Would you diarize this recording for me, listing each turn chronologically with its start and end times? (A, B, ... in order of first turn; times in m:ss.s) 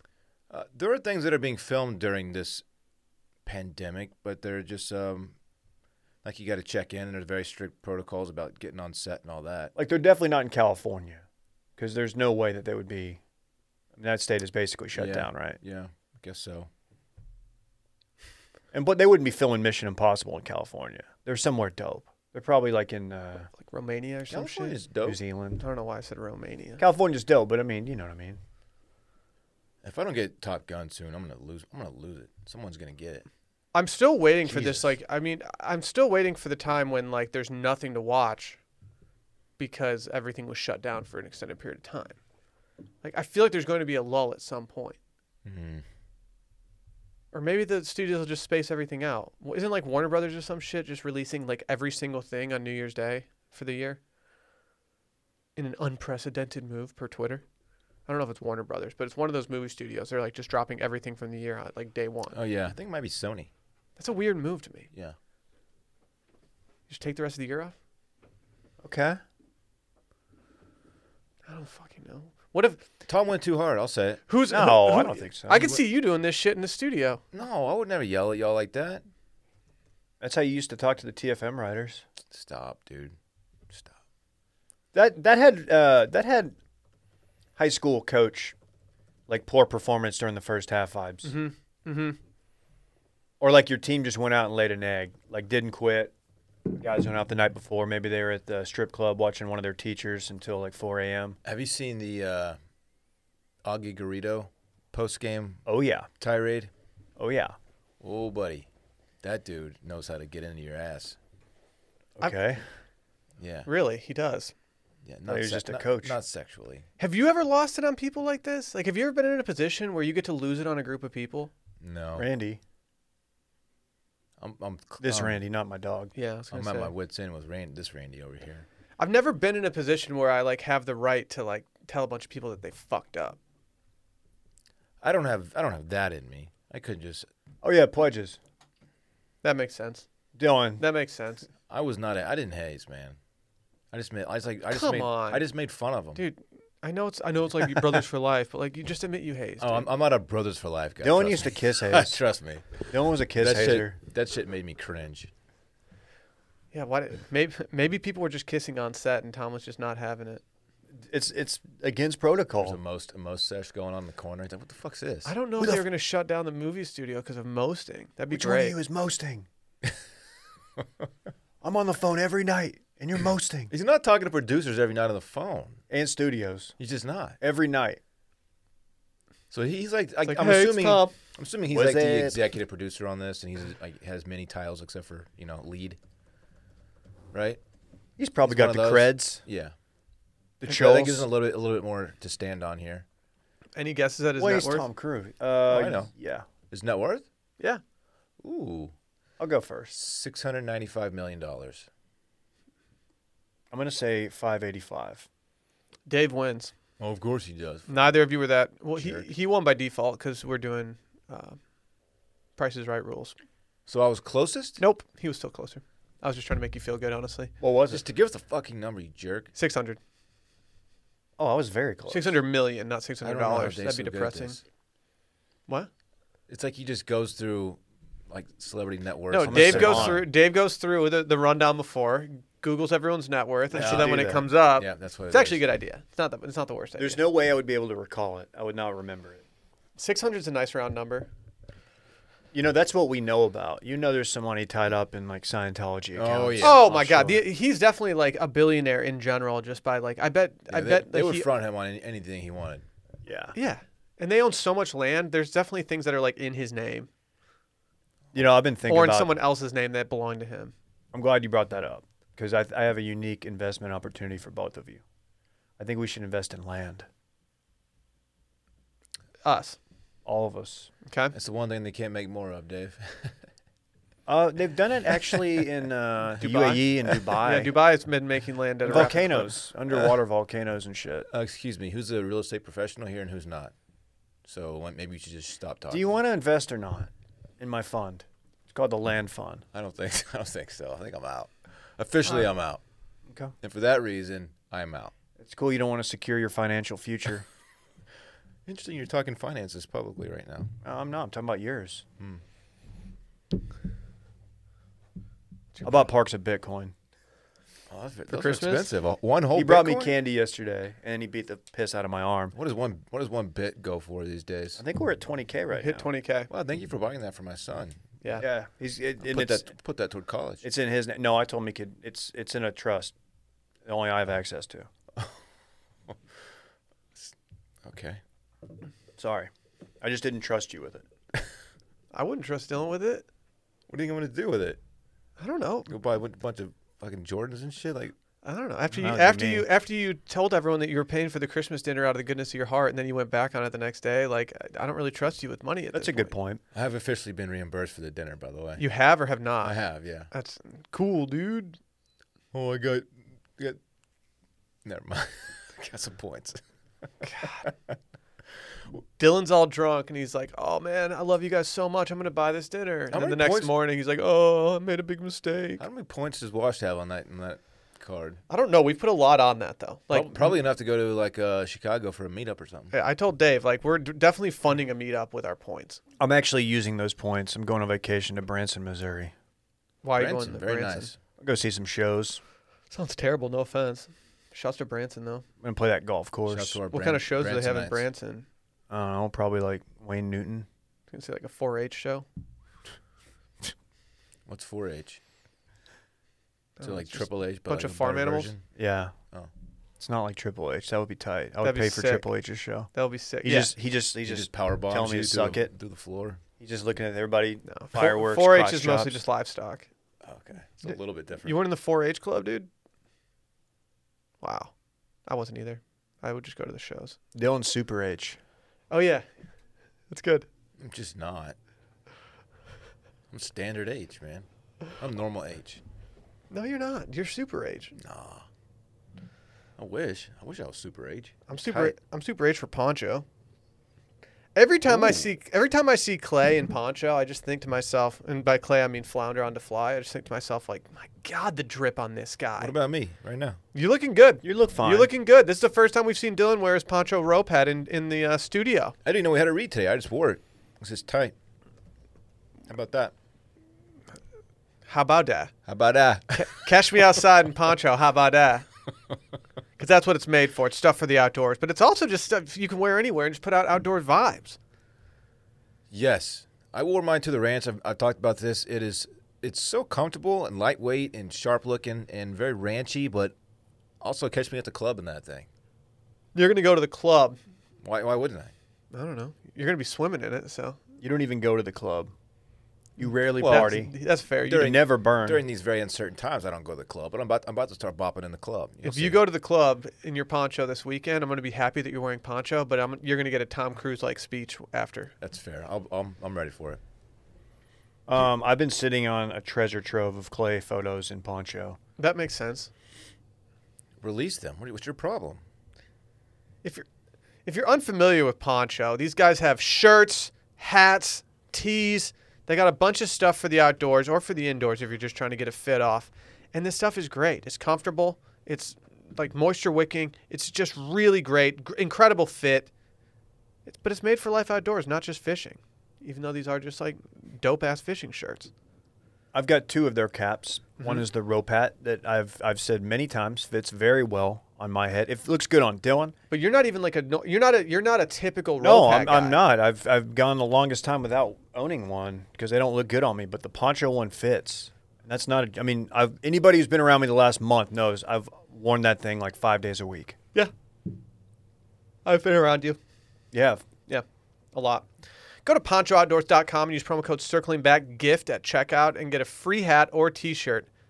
0:00.5-0:02.6 A
0:03.4-0:05.3 A
0:06.2-0:09.7 A
0:09.8-0:11.2 B
0:11.8-0:13.2 B
0:14.0-0:15.6 B
0:14.9-0:16.7 A
0:18.7-0:23.5 B
0:23.6-0:24.8 C
0:24.3-0:25.2 A
0:25.0-0:25.6 B
0:25.6-0:26.8 C
0:26.8-0:28.4 B
0:29.8-0:33.3 A
0:33.7-0:38.6 C
0:34.5-0:35.0 A
0:39.6-0:42.2 C
0:43.0-0:45.0 C
0:45.4-0:45.8 A
0:47.3-0:54.0 C
0:55.6-0:57.4 C
0:58.1-1:02.4 C
1:02.3-1:03.5 A
1:04.0-1:04.9 C
1:06.9-1:07.8 C
1:08.8-1:09.2 B
1:11.5-1:12.8 C
1:13.1-1:14.2 A
1:14.3-1:17.2 C
1:14.5-1:15.8 B
1:17.3-1:19.0 A
1:20.2-1:22.0 B
1:22.3-1:23.2 A
1:24.9-1:26.6 B
1:27.6-1:28.6 B
1:29.3-1:31.4 B
1:31.2-1:32.2 C
1:33.4-1:36.1 B
1:36.8-1:41.4 B
1:41.4-1:42.6 A
1:43.6-1:45.6 A
1:45.7-1:46.1 B
1:46.2-1:46.7 A
1:47.2-1:47.6 B
1:48.0-1:48.7 A
1:49.2-1:51.2 A
1:52.2-1:52.6 B
1:53.4-1:53.7 A
1:53.7-1:54.5 C
1:55.0-1:56.9 A
1:55.3-1:56.2 B
1:57.0-2:01.5 C
2:01.8-2:02.3 A
2:02.2-2:02.6 B
2:04.4-2:05.4 A
2:05.0-2:06.1 B
2:06.2-2:06.9 C
2:06.5-2:08.7 A
2:09.0-2:13.4 C
2:15.0-2:17.3 A
2:17.6-2:18.4 B
2:19.4-2:20.1 C
2:20.4-2:20.8 B
2:20.8-2:21.5 C
2:21.7-2:23.2 A
2:23.9-2:26.2 A
2:24.7-2:25.4 C
2:26.2-2:29.9 C
2:29.6-2:35.3 A
2:31.0-2:32.2 B
2:32.9-2:34.0 B
2:36.7-2:40.4 C
2:40.9-2:42.8 B
2:42.6-2:45.3 A
2:45.2-2:48.8 C
2:45.6-2:45.8 B
2:48.3-2:49.5 B
2:51.6-2:53.7 B
2:53.7-2:55.8 A
2:55.9-2:56.8 B
2:56.8-2:57.4 A
2:57.4-2:58.0 B
2:59.5-3:06.0 A
3:00.3-3:01.1 C
3:00.8-3:01.1 B
3:01.7-3:02.4 B
3:07.3-3:07.6 A
3:08.2-3:09.4 B
3:08.5-3:09.7 A
3:10.6-3:11.3 B
3:10.6-3:13.0 A
3:13.8-3:14.9 C
3:14.4-3:16.4 B
3:15.7-3:16.1 A
3:16.7-3:17.2 A
3:18.4-3:18.9 A
3:19.4-3:19.9 B
3:19.9-3:21.9 A
3:23.7-3:25.3 B
3:26.1-3:26.7 C
3:27.0-3:28.0 A
3:27.9-3:31.6 C
3:29.0-3:29.3 A
3:32.6-3:33.4 C
3:33.9-3:34.8 A
3:34.8-3:37.5 C
3:37.6-3:38.0 B
3:37.9-3:39.5 A
3:39.6-3:40.0 C
3:41.4-3:42.4 B
3:42.1-3:44.6 C
3:43.2-3:44.6 A
3:46.5-3:50.3 A
3:49.3-3:57.2 C
3:49.4-3:50.3 B
3:53.7-3:54.5 B
3:53.7-3:55.6 A
3:57.0-3:59.4 B
4:00.0-4:01.3 C
4:02.5-4:07.5 B
4:06.2-4:06.8 A
4:06.6-4:11.5 C
4:10.7-4:12.8 A
4:13.3-4:13.6 B
4:13.6-4:17.1 C
4:18.3-4:19.4 B
4:18.9-4:20.7 C
4:21.1-4:25.0 B
4:25.8-4:27.1 B
4:29.4-4:29.8 C
4:30.2-4:30.9 B
4:31.1-4:31.3 C
4:31.3-4:33.4 A
4:34.3-4:37.8 B
4:36.4-4:39.6 C
4:38.9-4:41.3 B
4:41.3-4:43.7 A
4:44.4-4:46.0 A
4:45.9-4:49.6 B
4:49.7-4:52.8 A
4:53.3-4:53.5 B
4:53.6-4:55.1 A
4:55.4-4:57.5 B
4:58.7-5:00.7 A
5:00.8-5:02.0 B
5:05.7-5:06.1 C
5:05.8-5:06.9 B
5:07.9-5:10.1 A
5:08.3-5:08.9 C
5:09.5-5:12.5 B
5:12.5-5:14.8 A
5:14.8-5:16.1 B
5:15.7-5:16.5 C
5:16.5-5:18.1 A
5:18.4-5:19.6 B
5:19.2-5:20.6 A
5:20.6-5:23.2 B
5:23.8-5:24.9 B
5:27.8-5:28.2 A
5:29.2-5:29.5 B
5:30.0-5:31.0 B
5:32.1-5:33.3 C
5:33.9-5:34.8 A
5:35.4-5:35.9 C
5:35.9-5:38.1 A
5:38.4-5:46.3 C
5:39.0-5:39.7 B
5:45.9-5:46.6 B
5:46.7-5:48.8 A
5:48.8-5:49.8 C
5:49.6-5:50.3 A
5:50.3-5:51.8 C
5:52.5-5:53.8 A
5:54.8-5:56.6 A
5:57.2-5:57.6 C
5:59.2-6:05.8 C
6:03.1-6:03.7 A
6:05.8-6:08.4 A
6:08.5-6:10.5 C
6:10.1-6:12.9 A
6:12.9-6:16.0 C
6:16.2-6:19.3 B
6:20.0-6:21.1 C
6:20.2-6:21.2 A
6:21.4-6:22.4 B
6:22.9-6:25.4 C
6:25.6-6:26.8 B
6:26.5-6:28.0 A
6:26.9-6:28.5 C
6:28.9-6:30.7 B
6:31.1-6:32.3 C
6:34.5-6:35.2 A
6:36.8-6:38.5 C
6:36.8-6:38.7 A
6:38.8-6:39.1 B
6:40.0-6:42.9 B
6:41.6-6:42.3 C
6:42.9-6:43.7 C
6:43.4-6:45.7 B
6:44.2-6:46.4 A
6:46.6-6:49.2 B
6:47.7-6:49.9 C
6:50.2-6:51.6 A
6:50.9-6:52.7 C
6:54.4-6:54.7 C
6:55.3-6:57.2 C
6:57.3-6:58.4 B
6:58.9-6:59.3 C
7:00.1-7:00.5 C
7:00.8-7:01.6 A
7:03.3-7:05.8 A
7:06.5-7:08.0 C
7:08.0-7:08.5 A
7:09.8-7:12.0 A
7:11.5-7:13.2 C
7:14.6-7:22.8 C
7:14.9-7:15.3 A
7:22.6-7:23.6 A
7:23.7-7:29.0 C
7:24.4-7:25.1 B
7:29.0-7:31.3 A
7:32.7-7:33.1 A
7:34.9-7:35.5 C
7:35.7-7:36.7 A
7:36.4-7:38.7 C
7:39.8-7:44.6 C
7:45.9-7:53.3 A
7:54.0-7:55.5 A
7:56.4-7:57.4 C
7:57.8-7:58.5 A
7:58.9-8:00.8 C
8:01.0-8:02.1 B
8:03.0-8:03.9 B
8:03.3-8:04.7 C
8:03.4-8:03.8 A
8:04.5-8:09.2 A
8:04.5-8:05.4 B
8:08.8-8:15.1 C
8:15.2-8:16.8 A
8:18.1-8:21.8 B
8:22.0-8:22.7 C
8:24.0-8:25.4 A
8:27.5-8:42.7 C
8:43.7-8:48.5 C
8:49.3-8:56.2 B
8:56.3-8:59.4 C
8:58.6-9:10.2 B
9:12.1-9:12.8 C
9:13.3-9:13.7 B
9:13.9-9:14.9 C
9:15.4-9:20.7 C